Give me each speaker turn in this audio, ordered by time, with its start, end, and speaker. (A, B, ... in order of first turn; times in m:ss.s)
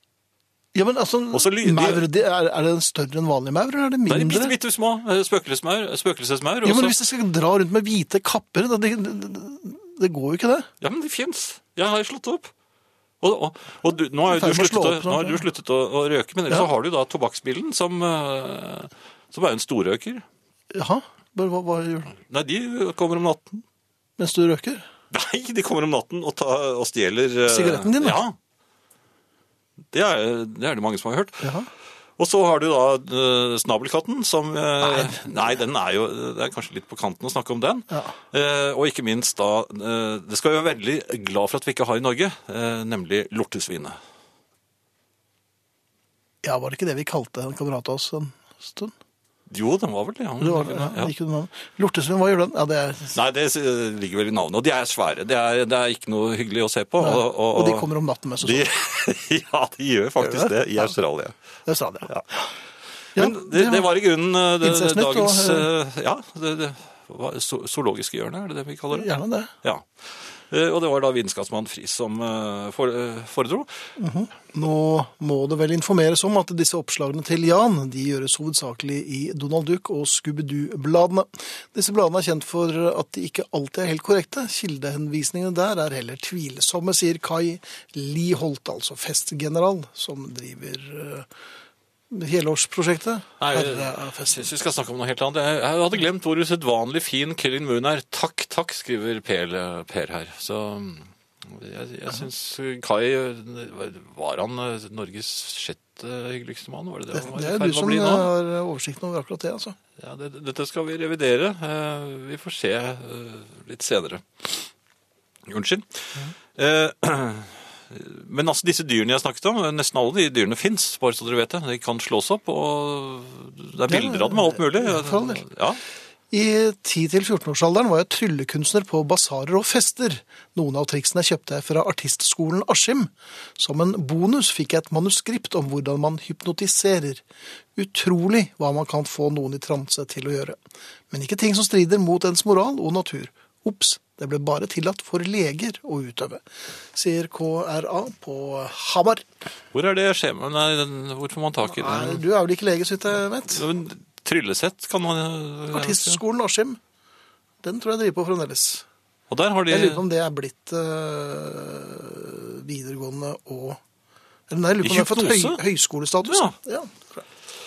0:00.7-0:04.5 A
0:01.3-0:02.0 B
0:04.1-0:07.0 B
0:06.6-0:10.7 A
0:10.8-0:12.5 B
0:13.2-0:20.2 B
0:14.3-0:15.4 A
0:20.7-0:22.1 A
0:22.2-0:23.6 B
0:24.2-0:24.8 A
0:25.1-0:28.4 B
0:27.5-0:28.2 A
0:29.9-0:31.5 B
0:31.4-0:31.7 A
0:32.2-0:44.0 B
0:34.8-0:35.2 A
0:37.9-0:38.1 A
0:46.4-0:48.9 A
0:49.5-0:51.1 B
0:50.4-0:53.2 A
0:53.1-0:57.9 B
0:57.0-0:58.7 A
0:58.4-1:01.3 B
1:00.2-1:00.5 A
1:01.6-1:02.5 A
1:03.2-1:03.9 A
1:03.2-1:09.1 B
1:04.6-1:05.7 A
1:08.9-1:09.5 A
1:09.6-1:13.7 B
1:14.0-1:31.3 A
1:32.1-1:34.5 A
1:33.4-1:48.3 B
1:47.1-1:49.8 A
1:50.0-1:54.7 B
1:55.4-2:05.8 B
2:03.9-2:05.4 A
2:06.3-2:17.2 A
2:17.8-2:20.6 A
2:21.1-2:29.3 A
2:29.7-2:32.2 B
2:31.7-2:33.6 A
2:33.5-2:36.2 B
2:35.7-2:36.8 A
2:37.6-2:38.8 A
2:39.3-2:40.0 B
2:39.7-2:43.8 A
2:44.5-2:47.2 A
2:44.8-2:45.6 B
2:46.2-2:46.5 B